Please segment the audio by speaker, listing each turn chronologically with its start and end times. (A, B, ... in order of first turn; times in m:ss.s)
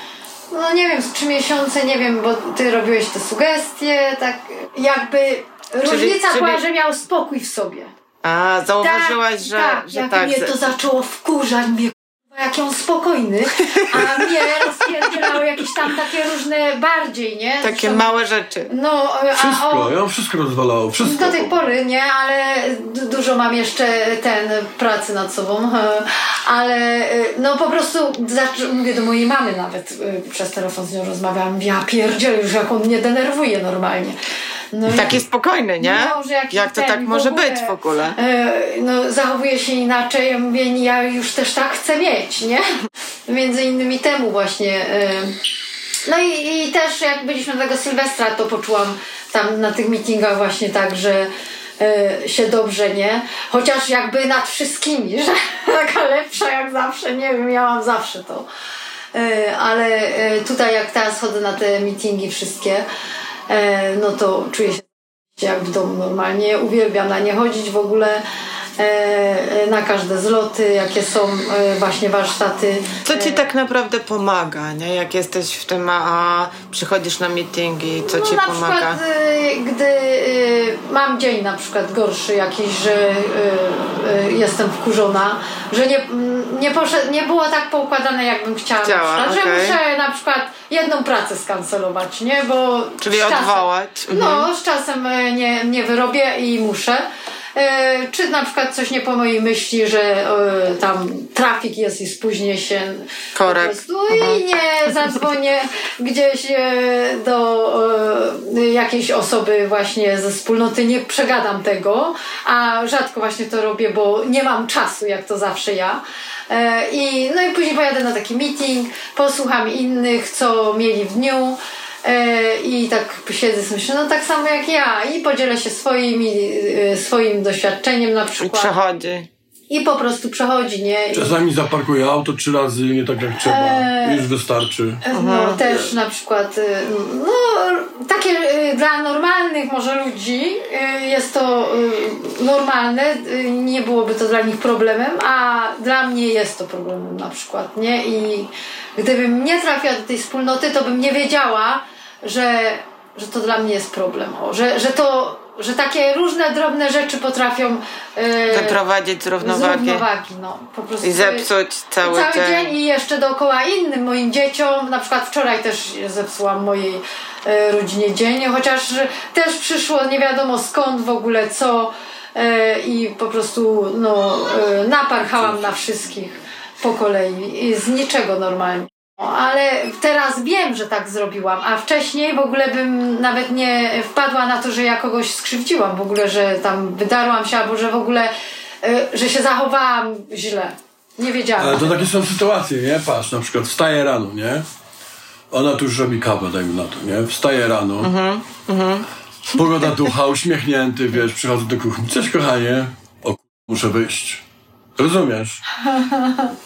0:00.5-0:07.9 A
0:05.8-0:06.6 B
0:08.2-0:10.6 B
0:08.8-0:18.1 A
0:13.7-0:14.2 B
0:17.6-0:18.7 B
0:18.7-0:19.9 A
0:19.4-0:21.5 C
0:21.0-0:34.2 A
0:34.7-0:35.2 A
0:34.9-0:38.2 B
0:35.8-0:42.6 A
0:43.3-0:45.3 A
0:46.1-0:58.5 A
0:59.2-1:02.9 A
1:03.5-1:08.2 A
1:08.8-1:13.4 A
1:13.1-1:19.0 B
1:18.1-2:08.7 A
1:28.8-1:29.8 B
1:33.0-1:34.5 B
1:43.4-1:44.4 B
2:08.4-2:09.3 B
2:09.7-2:11.4 A
2:11.1-2:15.0 C
2:13.4-2:14.2 A
2:15.0-2:38.8 A
2:15.1-2:15.9 B
2:38.5-2:40.0 B
2:39.4-2:41.5 A
2:41.0-2:42.7 B
2:42.0-3:12.1 A
2:55.4-2:55.7 C
3:11.6-3:14.6 C
3:15.5-3:18.1 C
3:18.0-3:19.1 B
3:19.5-3:24.4 C
3:25.0-3:25.6 C
3:26.2-3:26.4 A